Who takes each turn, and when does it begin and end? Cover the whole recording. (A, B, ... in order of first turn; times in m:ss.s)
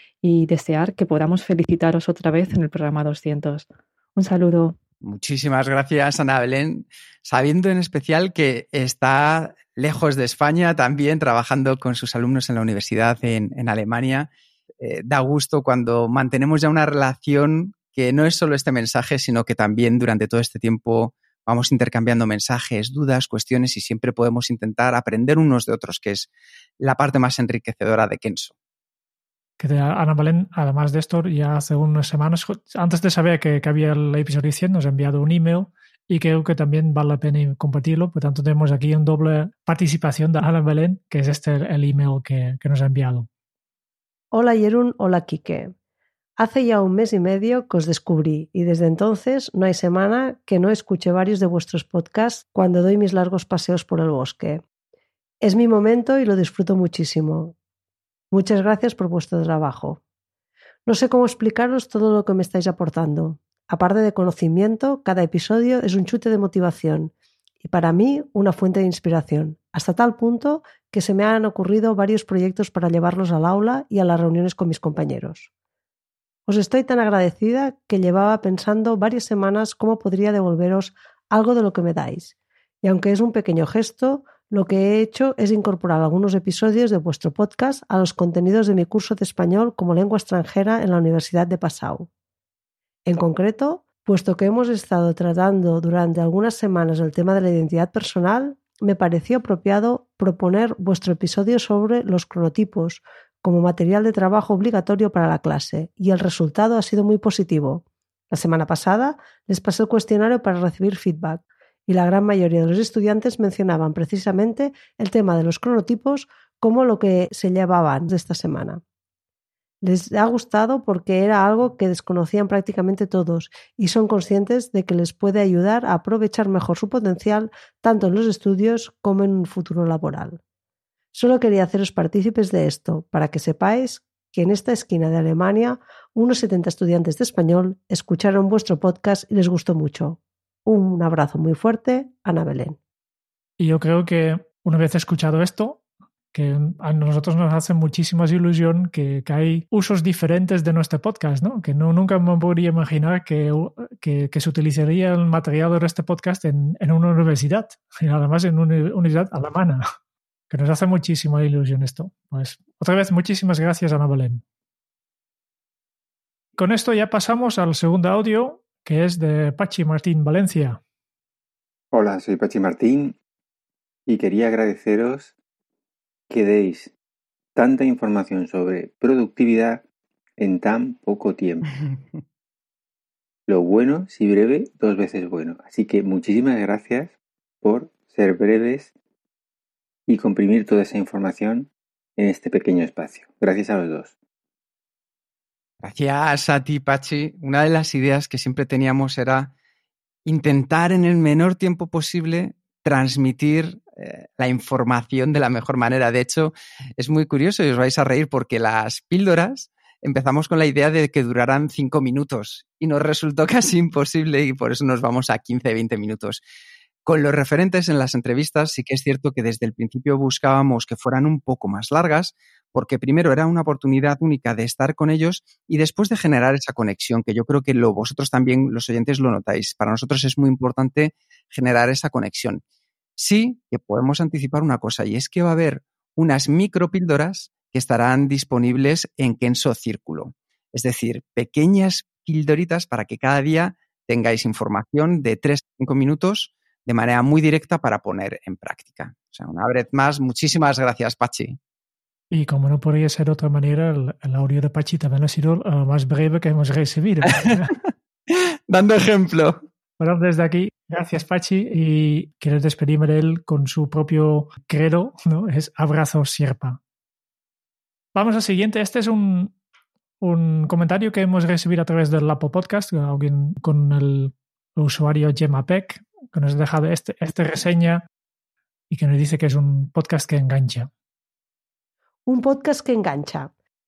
0:00.2-0:04.8 A
0:05.0-0:26.3 B
0:26.8-0:28.5 B
0:29.6-0:43.3 C
0:44.3-0:45.7 D
0:46.4-0:54.6 D
0:55.4-0:57.5 D
0:58.3-1:00.0 D
1:00.9-1:15.5 D
1:16.5-1:32.1 D
1:33.0-1:58.8 D
1:59.8-2:10.4 D
2:11.1-2:22.8 D
2:23.6-2:25.8 C
2:26.3-2:39.8 C
2:40.5-2:44.4 C
2:46.6-2:50.8 C
2:51.9-2:53.2 E
2:54.1-2:55.3 E
2:56.3-2:56.9 E
2:57.6-2:59.8 E
3:00.4-3:01.7 E
3:03.5-3:08.9 E
3:10.1-3:14.1 E
3:15.8-3:19.5 B
3:20.2-3:36.4 B
3:37.0-3:52.6 B
3:53.2-4:11.6 B
4:12.3-4:17.7 C
4:18.3-4:19.6 B
4:20.0-4:26.8 C
4:28.1-4:29.5 C
4:30.2-4:38.0 C
4:38.9-4:40.9 C
4:42.3-4:43.5 D